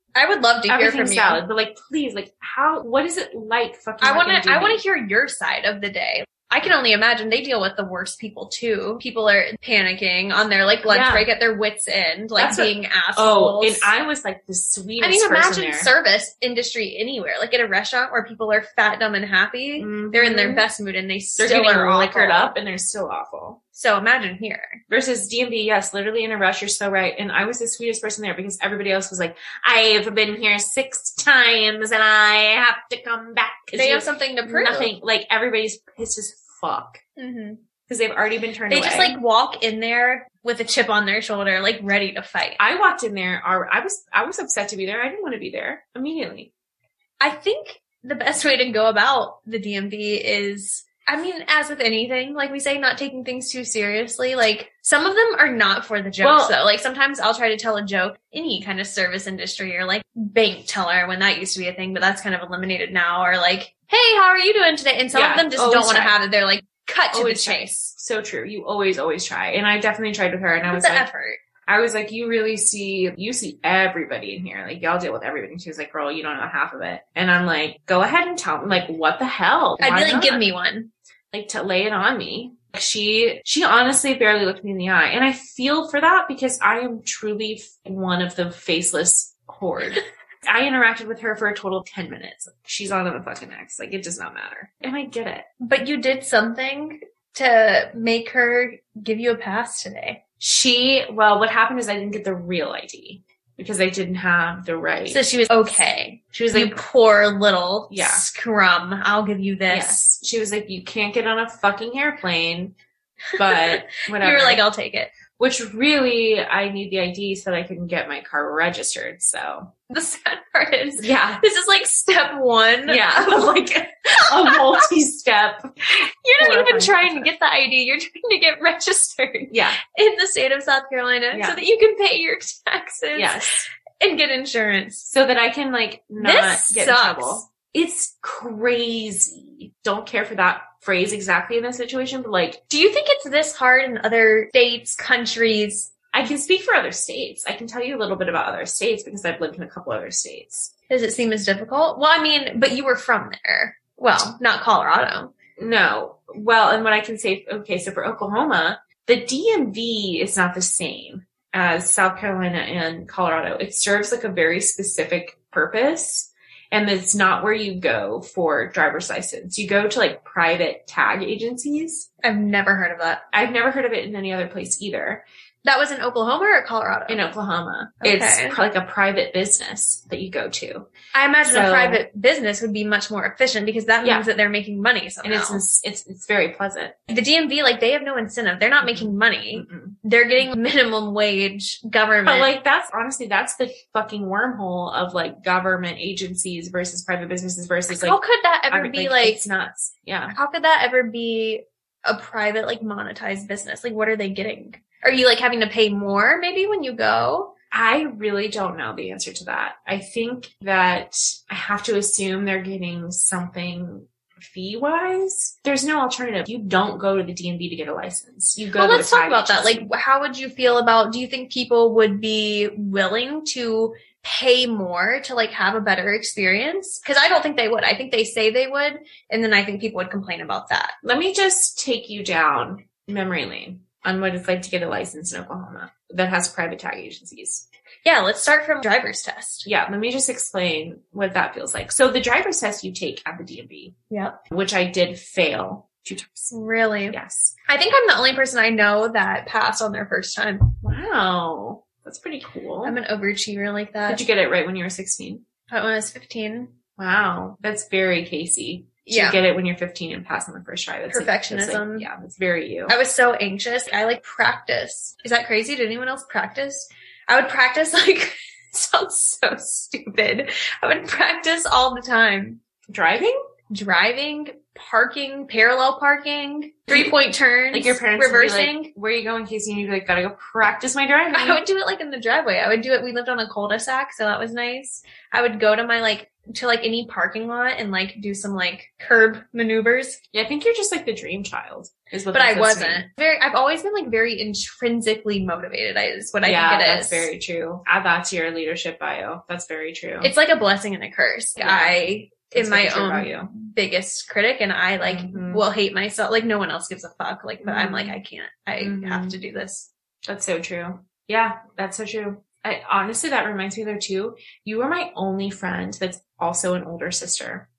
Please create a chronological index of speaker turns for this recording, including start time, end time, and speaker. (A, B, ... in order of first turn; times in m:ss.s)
0:00.2-0:01.4 A
0:00.7-0:04.8 B
0:04.0-0:13.9 A
0:10.9-0:11.3 B
0:12.4-0:15.9 B
0:15.0-0:22.5 A
0:19.8-0:20.7 B
0:21.4-0:23.6 B
0:23.7-0:24.8 A
0:24.9-0:37.0 B
0:33.8-0:34.9 A
0:37.2-0:37.6 A
0:37.9-0:39.2 B
0:38.7-0:42.6 A
0:42.6-0:46.5 B
0:47.2-1:07.9 A
0:56.2-0:56.6 B
1:05.1-1:06.2 B
1:07.1-1:11.1 B
1:10.7-1:11.4 A
1:11.7-1:20.4 B
1:19.8-1:20.9 A
1:21.3-1:35.5 B
1:35.6-1:40.2 A
1:40.4-1:45.8 B
1:45.1-1:50.0 A
1:46.3-1:46.8 B
1:47.9-1:48.2 B
1:49.7-1:52.7 B
1:53.3-1:55.1 A
1:53.4-1:54.6 B
1:55.4-1:59.7 B
1:59.9-2:03.5 A
2:01.0-2:01.4 B
2:02.9-2:05.9 B
2:04.1-2:04.9 A
2:05.9-2:15.1 A
2:06.4-2:07.3 B
2:09.5-2:09.8 B
2:11.3-2:11.6 B
2:13.2-2:13.7 B
2:15.1-2:22.6 B
2:16.2-2:17.4 A
2:22.7-2:25.9 A
2:26.1-2:30.7 B
2:30.9-2:35.3 A
2:35.6-2:52.1 B
2:52.2-2:53.2 A
2:53.3-2:55.2 B
2:55.6-2:57.3 A
2:57.1-3:00.9 B
2:58.0-2:58.6 A
3:01.1-3:05.6 A
3:01.5-3:02.0 B
3:05.2-3:07.0 B
3:07.1-3:12.5 A
3:08.8-3:10.0 B
3:12.2-3:20.4 B
3:17.9-3:19.4 A
3:20.3-3:27.5 A
3:27.7-3:39.9 B
3:38.8-3:51.0 A
3:51.0-3:57.7 B
3:58.0-3:59.7 A
3:59.6-4:04.0 B
4:04.1-4:04.4 A
4:04.5-4:06.5 B
4:06.5-4:10.8 A
4:07.1-4:07.6 B
4:10.8-4:13.0 B
4:12.8-4:14.2 A
4:14.1-4:15.4 B
4:15.7-4:16.7 A
4:17.0-4:23.0 B
4:19.1-4:19.4 A
4:21.1-4:22.1 A
4:22.9-4:32.6 A
4:32.9-4:33.4 B
4:33.7-4:38.9 A
4:37.7-4:41.6 B
4:41.3-4:50.2 A
4:50.3-4:53.0 B
4:52.3-4:57.3 A
4:56.4-5:00.3 B
5:00.2-5:09.9 A
5:01.6-5:02.0 B
5:02.5-5:03.5 B
5:05.0-5:05.6 B
5:07.6-5:08.2 B
5:08.8-5:09.4 B
5:10.3-5:17.7 B